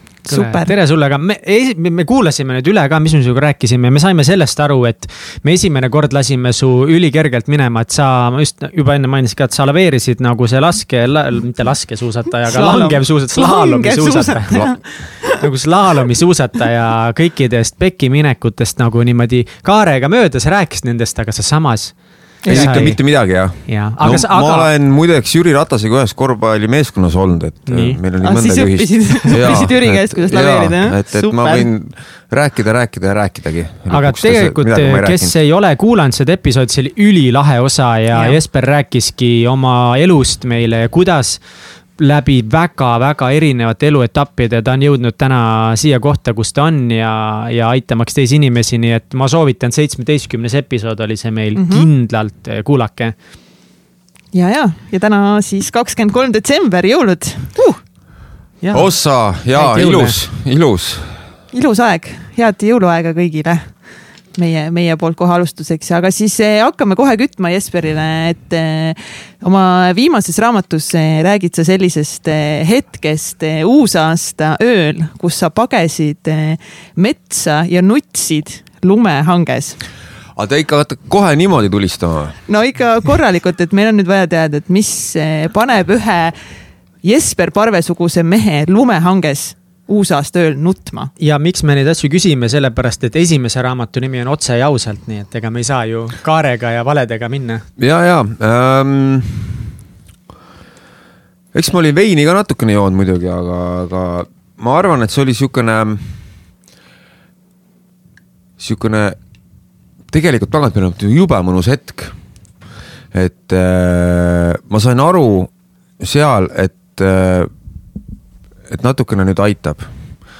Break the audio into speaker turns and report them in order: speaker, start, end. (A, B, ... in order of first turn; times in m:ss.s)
0:00.3-0:00.7 A
0:00.3-0:14.7 B
0:12.4-0:15.4 A
0:15.3-0:21.9 B
0:22.4-0:22.7 A
0:22.4-0:23.0 B
0:22.5-0:35.3 C
0:23.6-0:24.7 B
0:27.7-0:28.0 B
0:28.2-0:31.7 A
0:33.9-0:41.4 B
0:38.1-0:38.4 A
0:42.0-0:53.1 B
0:51.5-0:51.9 A
0:54.3-0:57.8 A
0:58.6-0:58.9 B
0:58.7-1:01.2 C
0:59.5-1:00.2 B
1:01.5-1:03.7 A
1:04.3-1:19.8 A
1:20.4-1:22.4 C
1:22.5-1:26.4 A
1:27.0-1:31.1 A
1:31.2-1:37.6 B
1:37.8-1:39.7 C
1:41.5-1:46.2 C
1:48.6-1:49.2 C
1:50.1-1:52.1 C
1:53.1-1:57.5 C
1:58.7-1:59.9 C